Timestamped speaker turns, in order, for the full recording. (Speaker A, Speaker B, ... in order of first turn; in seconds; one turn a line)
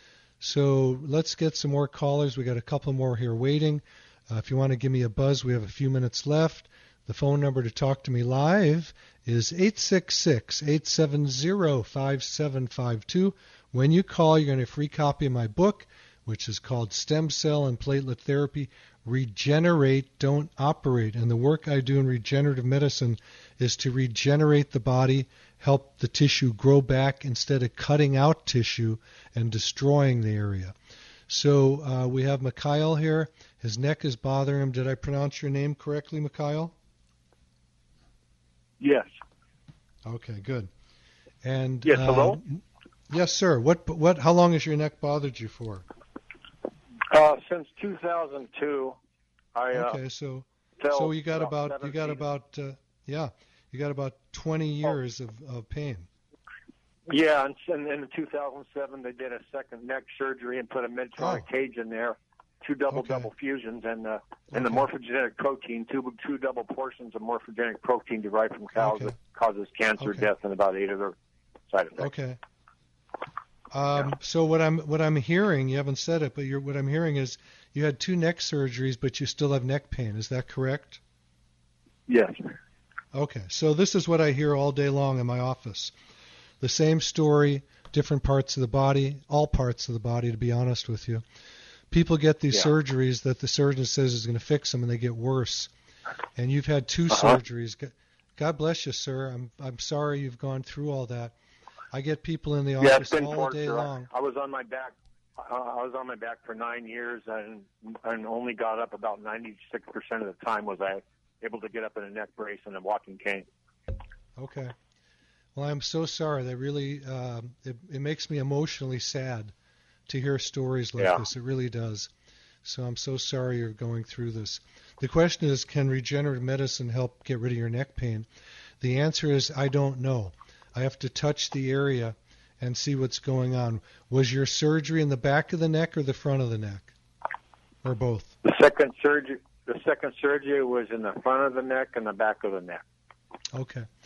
Speaker A: 0.4-30.8
Speaker A: 31.3-36.7
Speaker B: 38.8-39.1
Speaker A: 40.0-40.7
Speaker A: 41.4-45.9
Speaker B: 41.8-42.4
Speaker B: 47.1-49.0
Speaker B: 49.5-50.0
Speaker A: 49.7-56.1
Speaker B: 50.8-52.2
Speaker B: 57.1-71.1
Speaker A: 61.2-61.5
Speaker A: 62.9-63.3
Speaker A: 64.5-64.8
Speaker A: 68.8-69.1
Speaker A: 70.0-70.3
Speaker B: 71.7-72.1
Speaker A: 72.0-72.4
Speaker A: 73.7-81.0
Speaker B: 82.1-82.4
Speaker A: 83.1-85.9
Speaker A: 86.6-91.2
Speaker A: 91.9-95.7
Speaker A: 96.3-101.3
Speaker B: 97.1-97.4
Speaker A: 101.9-104.1
Speaker B: 102.8-113.5
Speaker A: 114.4-114.7
Speaker A: 115.5-119.5
Speaker A: 120.1-122.1
Speaker A: 122.6-128.3
Speaker A: 128.8-136.9
Speaker A: 137.8-138.3
Speaker B: 138.4-142.8
Speaker A: 143.5-143.9